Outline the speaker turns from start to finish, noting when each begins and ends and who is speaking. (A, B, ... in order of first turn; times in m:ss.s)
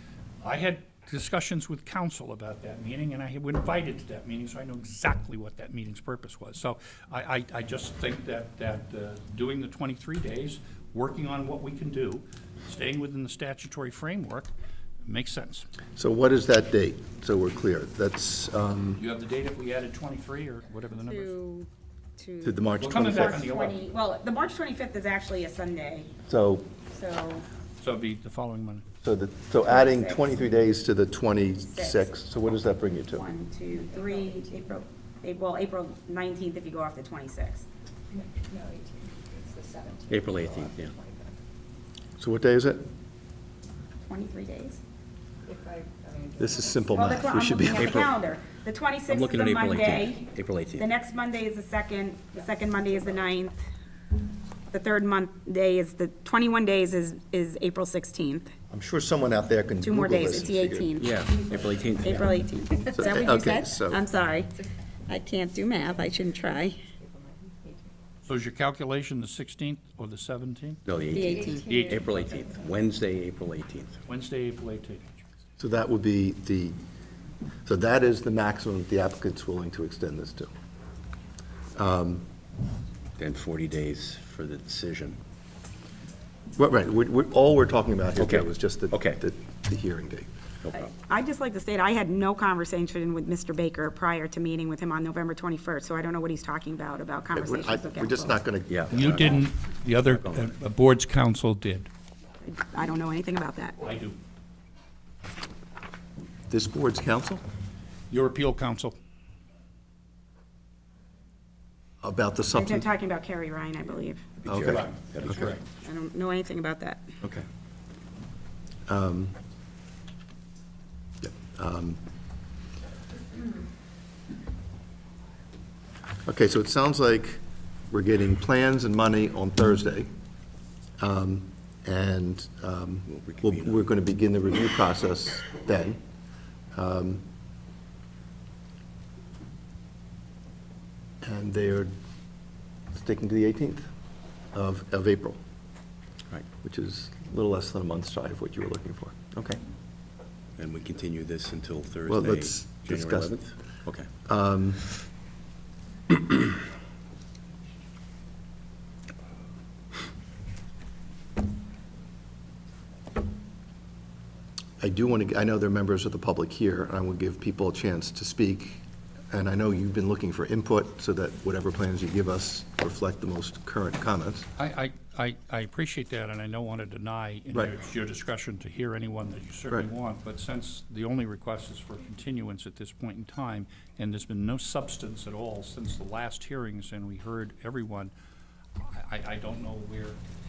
0:00.4-0:14.5 A
0:15.0-0:15.7 A
0:16.0-0:19.0 B
0:19.0-0:21.3 A
0:21.0-0:26.1 C
0:22.4-0:23.5 B
0:22.8-0:23.8 A
0:26.3-0:26.7 B
0:26.9-0:27.5 C
0:27.8-0:28.9 A
0:29.0-0:33.2 B
0:29.7-0:30.4 C
0:31.6-0:32.1 C
0:33.1-0:37.6 C
0:33.9-0:34.5 D
0:38.1-0:41.4 D
0:40.1-0:40.9 E
0:42.2-0:42.9 B
0:44.0-0:44.8 C
0:45.5-0:47.7 D
0:46.4-0:48.2 B
0:46.9-0:53.6 C
0:47.7-0:48.1 E
0:49.1-0:50.9 E
0:54.7-0:58.5 C
0:58.7-1:01.0 B
0:59.8-1:01.4 C
1:01.0-1:02.4 E
1:01.4-1:01.8 D
1:02.0-1:04.6 C
1:03.0-1:04.0 B
1:05.1-1:06.8 C
1:05.8-1:07.9 D
1:08.2-1:10.8 A
1:10.8-1:14.0 E
1:11.1-1:12.9 D
1:11.1-1:11.6 C
1:11.7-1:12.0 A
1:14.1-1:15.2 A
1:15.6-1:16.8 B
1:17.7-1:20.5 B
1:21.8-1:22.3 B
1:23.2-1:25.2 E
1:26.6-1:30.3 B
1:28.2-1:29.2 E
1:30.6-1:30.9 E
1:30.7-1:38.4 C
1:37.3-1:39.4 B
1:38.7-1:40.6 E
1:38.9-1:41.9 A
1:42.4-1:43.8 C
1:43.8-1:44.2 A
1:46.5-1:47.4 B
1:48.1-1:49.0 A
1:52.0-1:52.9 B
1:52.5-1:54.3 C
1:54.4-1:55.6 E
1:54.5-1:55.6 B
1:54.7-1:55.6 A
1:55.8-1:57.1 C
1:58.9-1:59.4 B
2:01.2-2:02.0 B
2:06.2-2:10.1 B
2:11.0-2:16.0 B
2:13.1-2:13.9 E
2:16.7-2:17.2 B
2:21.2-2:22.0 B
2:22.9-2:23.9 B
2:24.5-2:25.4 B
2:26.6-2:29.6 B
2:30.6-2:34.1 E
2:32.1-2:33.4 B
2:34.3-2:34.8 B
2:44.8-2:54.5 B
2:54.6-3:08.1 A
3:08.8-3:10.2 A